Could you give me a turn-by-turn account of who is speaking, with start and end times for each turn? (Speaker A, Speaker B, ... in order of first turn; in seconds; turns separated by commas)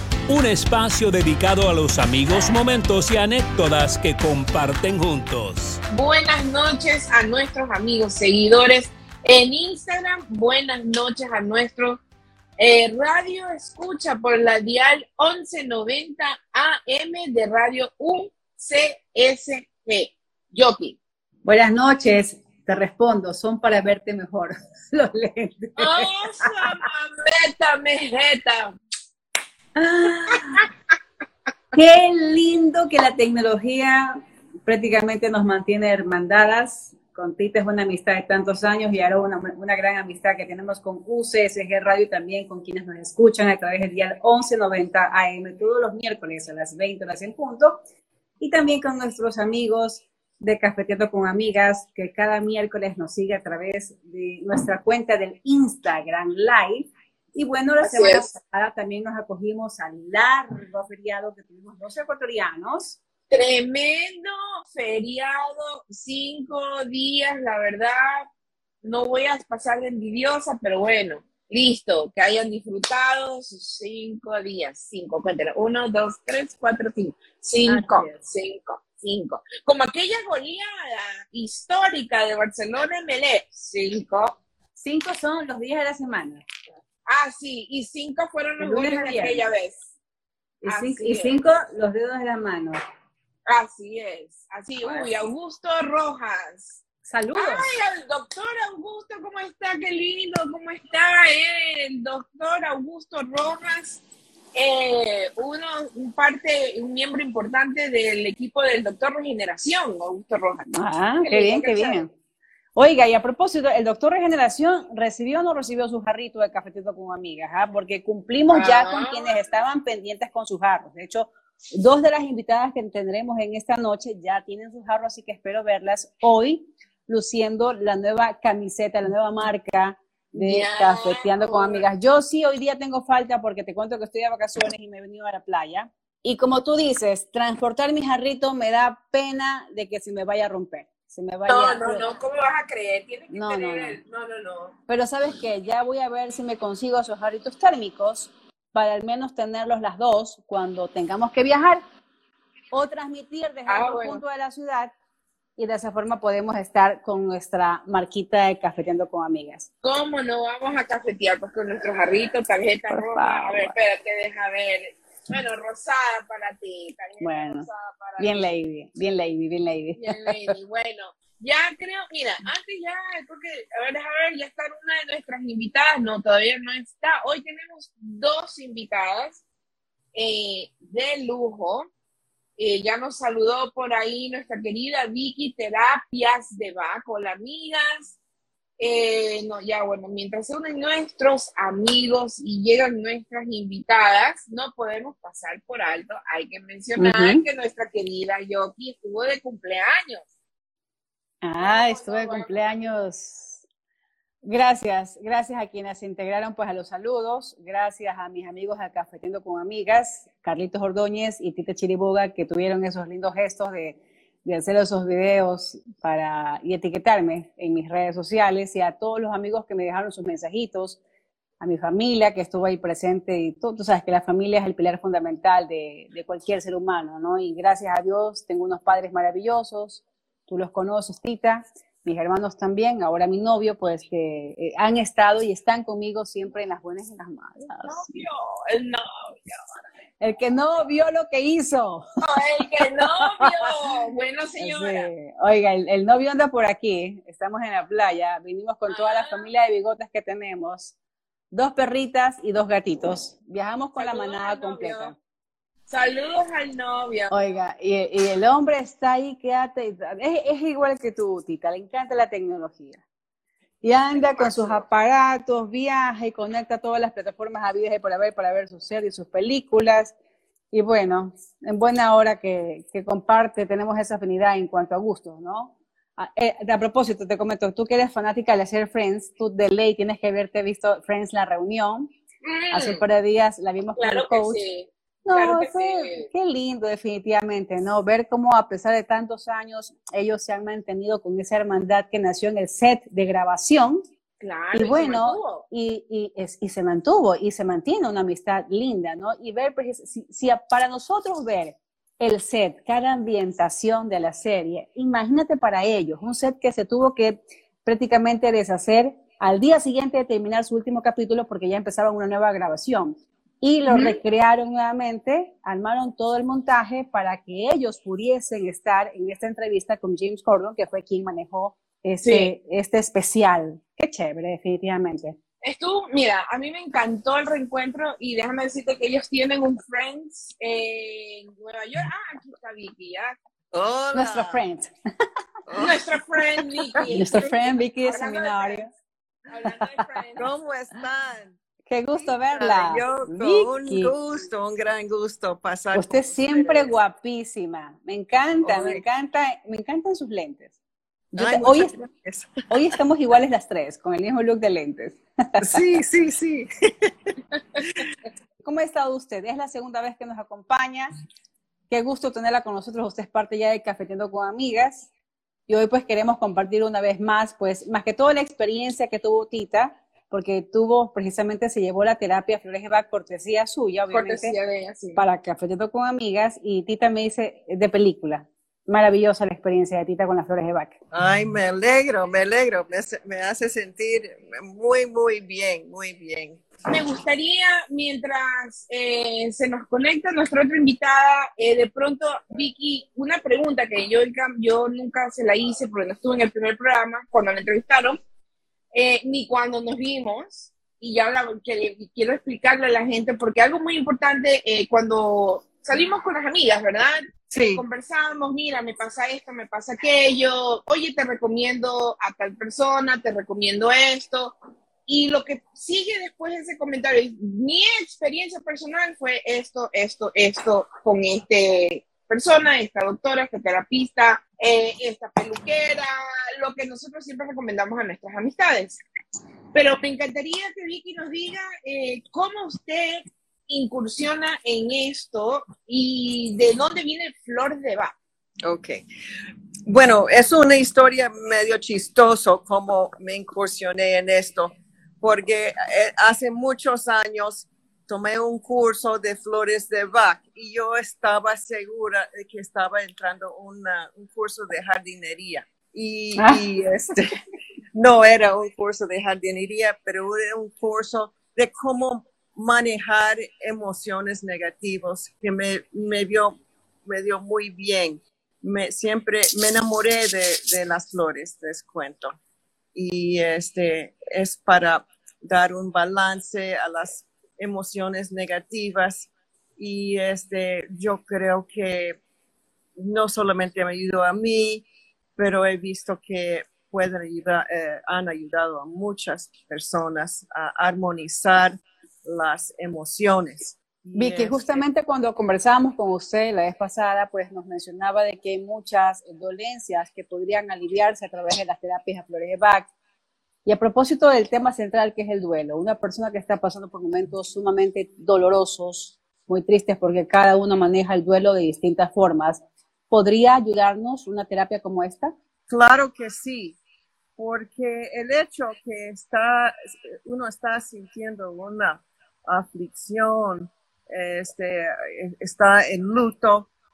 Speaker A: 0.3-5.8, Speaker B: 5.9-12.0, Speaker B: 12.6-21.0, Speaker C: 21.4-26.8, Speaker B: 25.8-28.7, Speaker C: 29.8-30.6, Speaker C: 31.7-47.8, Speaker C: 48.4-63.0, Speaker B: 57.8-58.3, Speaker B: 63.3-68.3, Speaker B: 68.8-84.3, Speaker C: 77.7-78.2, Speaker C: 84.8-86.4, Speaker B: 87.0-89.8, Speaker C: 88.6-89.5, Speaker C: 90.6-92.8, Speaker B: 90.7-91.3, Speaker B: 93.5-96.8, Speaker C: 94.8-95.1, Speaker C: 97.0-97.7, Speaker B: 97.3-104.0, Speaker B: 104.5-110.7, Speaker C: 110.7-112.1, Speaker B: 111.2-112.0, Speaker C: 112.8-142.1, Speaker B: 118.5-119.5, Speaker B: 130.3-131.8, Speaker B: 141.5-144.7, Speaker C: 143.3-144.0, Speaker C: 144.9-151.8, Speaker C: 152.7-154.9, Speaker B: 153.7-154.2, Speaker C: 155.6-159.7, Speaker B: 159.8-168.5, Speaker C: 162.9-163.7, Speaker C: 167.2-167.7, Speaker C: 168.2-170.5, Speaker B: 170.0-179.4, Speaker B: 180.1-181.9, Speaker B: 182.6-188.2, Speaker B: 188.8-200.2, Speaker C: 197.0-197.4, Speaker C: 201.4-203.6, Speaker B: 201.6-202.9, Speaker C: 204.4-221.0, Speaker C: 221.6-238.1, Speaker B: 237.8-239.7, Speaker C: 240.2-242.1, Speaker B: 242.2-245.1, Speaker C: 244.6-250.9, Speaker B: 248.9-249.5, Speaker C: 251.5-255.2, Speaker B: 254.0-255.1, Speaker B: 255.9-257.3, Speaker C: 257.3-263.0, Speaker C: 263.8-270.1, Speaker B: 264.1-264.8, Speaker C: 270.7-282.1, Speaker B: 282.4-283.0, Speaker C: 282.7-284.6, Speaker B: 283.9-286.3, Speaker C: 285.2-294.0, Speaker B: 294.4-295.6, Speaker C: 294.7-325.4, Speaker B: 313.9-314.2, Speaker B: 322.2-322.5, Speaker B: 325.6-333.3, Speaker D: 333.7-334.6, Speaker C: 334.1-334.9, Speaker D: 335.7-336.0, Speaker B: 335.8-338.9, Speaker C: 337.1-338.9, Speaker B: 339.5-340.5, Speaker D: 340.4-341.6, Speaker C: 341.9-344.1, Speaker D: 342.5-346.9, Speaker C: 345.9-350.8, Speaker D: 348.6-349.0, Speaker C: 351.3-351.9, Speaker D: 351.3-352.6, Speaker C: 352.7-355.8, Speaker D: 355.6-358.0, Speaker C: 358.6-361.1, Speaker C: 361.9-365.1, Speaker C: 365.7-374.5, Speaker B: 374.1-375.2, Speaker C: 375.1-380.9, Speaker D: 381.1-386.6, Speaker B: 386.9-398.2, Speaker B: 398.9-407.2, Speaker C: 407.5-407.8, Speaker B: 407.7-414.5, Speaker B: 415.1-429.0, Speaker B: 429.7-438.1, Speaker D: 438.6-439.0, Speaker D: 439.9-457.3, Speaker C: 456.4-456.6, Speaker D: 457.9-472.4, Speaker D: 472.9-482.2, Speaker D: 483.0-484.9, Speaker D: 485.4-494.8, Speaker C: 494.1-502.9, Speaker C: 503.6-515.3, Speaker D: 515.7-516.8, Speaker D: 517.4-526.7